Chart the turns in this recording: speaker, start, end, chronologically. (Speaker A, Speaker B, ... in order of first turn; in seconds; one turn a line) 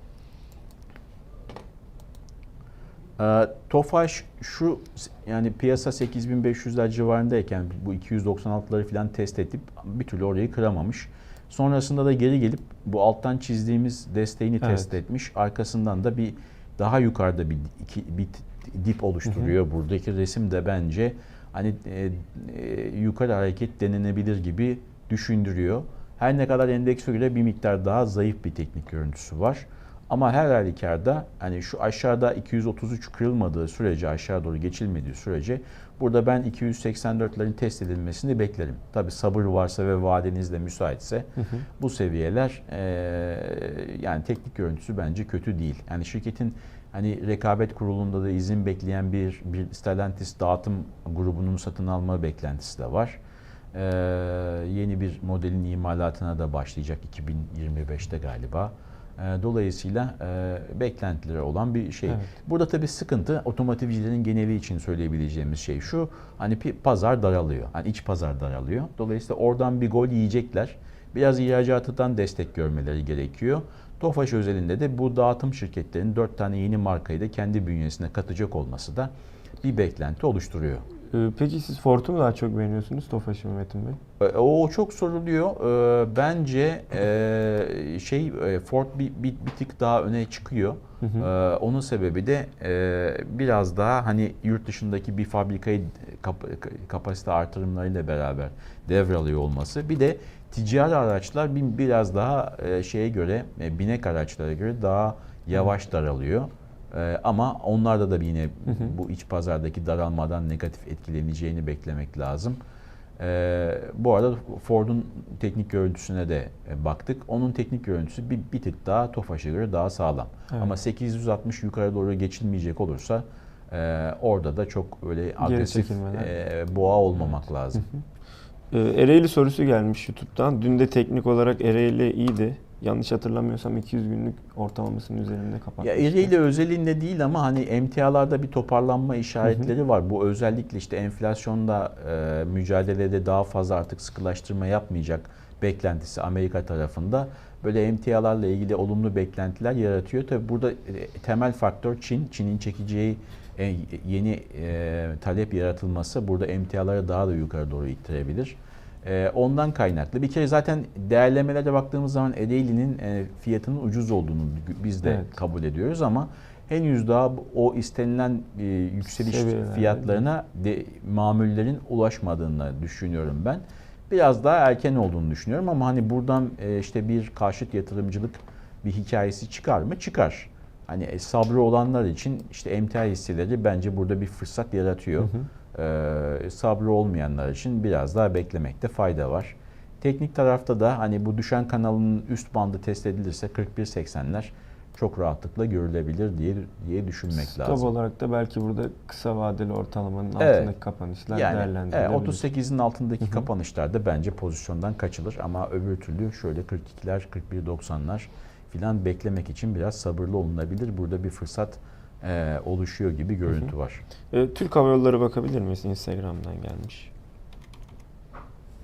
Speaker A: 3.2-41.3
Speaker B: 14.6-14.9
Speaker B: 19.3-19.5
Speaker B: 41.4-41.6
Speaker A: 41.8-53.2
Speaker A: 53.7-80.9
Speaker B: 62.1-62.3
Speaker B: 81.1-84.0
Speaker A: 84.2-112.6
Speaker B: 91.0-91.3
Speaker A: 113.2-127.9
Speaker B: 125.4-126.3
Speaker B: 127.8-128.0
Speaker B: 128.7-136.3
Speaker A: 135.8-197.9
Speaker B: 165.0-165.4
Speaker B: 169.1-170.2
Speaker B: 185.2-185.5
Speaker B: 197.4-202.5
Speaker A: 200.4-200.7
Speaker A: 201.3-214.0
Speaker B: 214.3-217.1